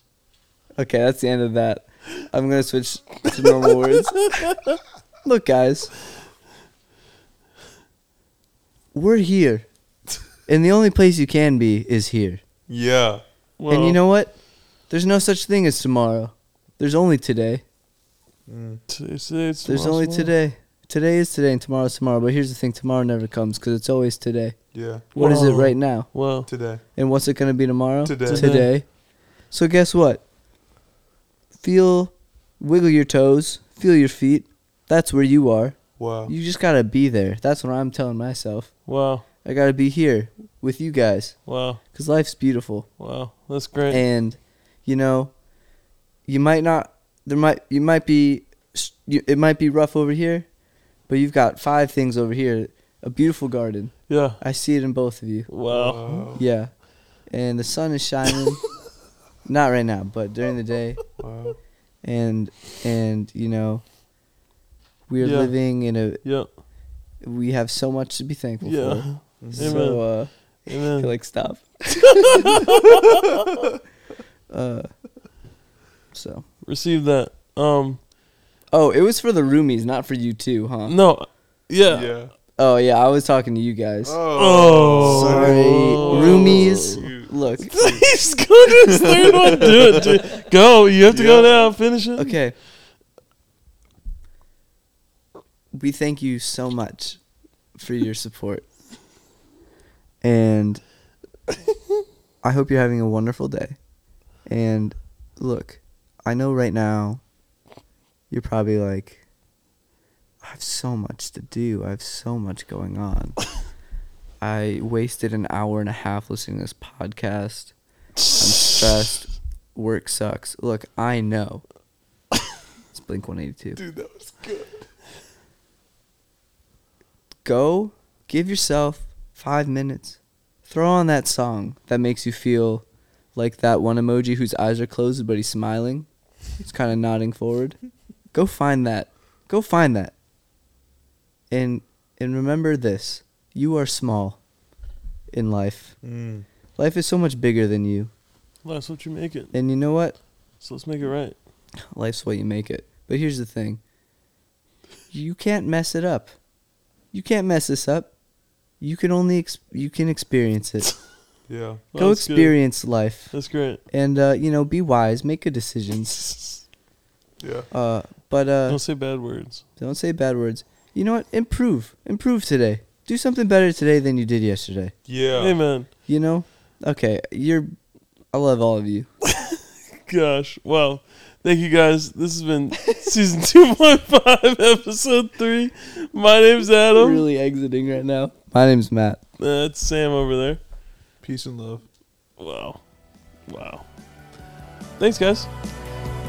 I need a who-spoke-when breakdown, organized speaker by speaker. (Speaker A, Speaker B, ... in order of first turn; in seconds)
Speaker A: 0.8-4.3, 5.2-5.9, 8.9-9.7, 10.5-12.4, 13.7-14.3, 14.9-17.6, 19.6-24.6, 25.1-26.1, 26.9-28.9, 29.5-30.2, 31.6-38.7, 39.4-41.4, 41.9-42.9, 43.9-45.3, 46.3-50.5, 51.1-55.5, 56.3-56.7, 57.3-58.6, 59.4-61.0, 62.0-63.8, 65.1-66.2, 67.2-72.8, 74.5-74.9, 76.1-76.4, 78.7-81.0, 82.5-84.2, 85.0-87.8, 92.2-92.5, 95.7-97.2, 97.8-98.7, 100.2-100.8, 102.4-103.8, 104.5-107.2, 108.3-109.2, 110.4-113.4, 114.4-117.7, 118.3-121.6, 122.9-123.8, 127.4-136.1, 136.6-137.8, 138.3-140.1, 141.5-144.4, 145.3-145.9, 146.8-148.1, 149.5-150.2, 151.9-153.8, 155.1-156.3, 157.1-158.1, 158.8-160.9, 161.9-163.3, 163.9-166.3, 167.7-168.8, 169.8-174.9, 176.1-177.7, 178.3-179.1, 186.9-189.2
Speaker B: 4.2-4.8, 13.6-14.0, 18.9-20.3, 25.1-26.5, 28.3-28.7, 38.9-39.2, 41.5-41.8, 43.0-44.0, 54.1-54.4, 55.5-56.2, 65.2-65.5, 68.6-70.0, 70.7-71.1, 72.2-73.5, 76.6-78.0, 80.9-82.1, 84.3-87.0, 87.7-92.3, 148.6-149.5, 150.6-151.3, 161.9-162.6, 163.3-163.8, 168.7-169.6, 175.4-175.9, 179.3-187.2, 189.4-190.6, 192.4-192.8, 193.5-193.8, 195.0-195.5
Speaker C: 12.7-13.2, 18.5-18.8, 24.7-25.1, 26.5-26.8, 28.0-28.5, 36.0-36.3, 55.7-56.4, 61.2-61.6, 69.4-69.8, 81.9-82.3, 84.0-88.2, 88.7-90.2, 91.1-91.7, 123.8-124.8, 146.0-146.4, 161.5-161.8, 167.4-167.7, 175.1-175.6, 191.2-191.8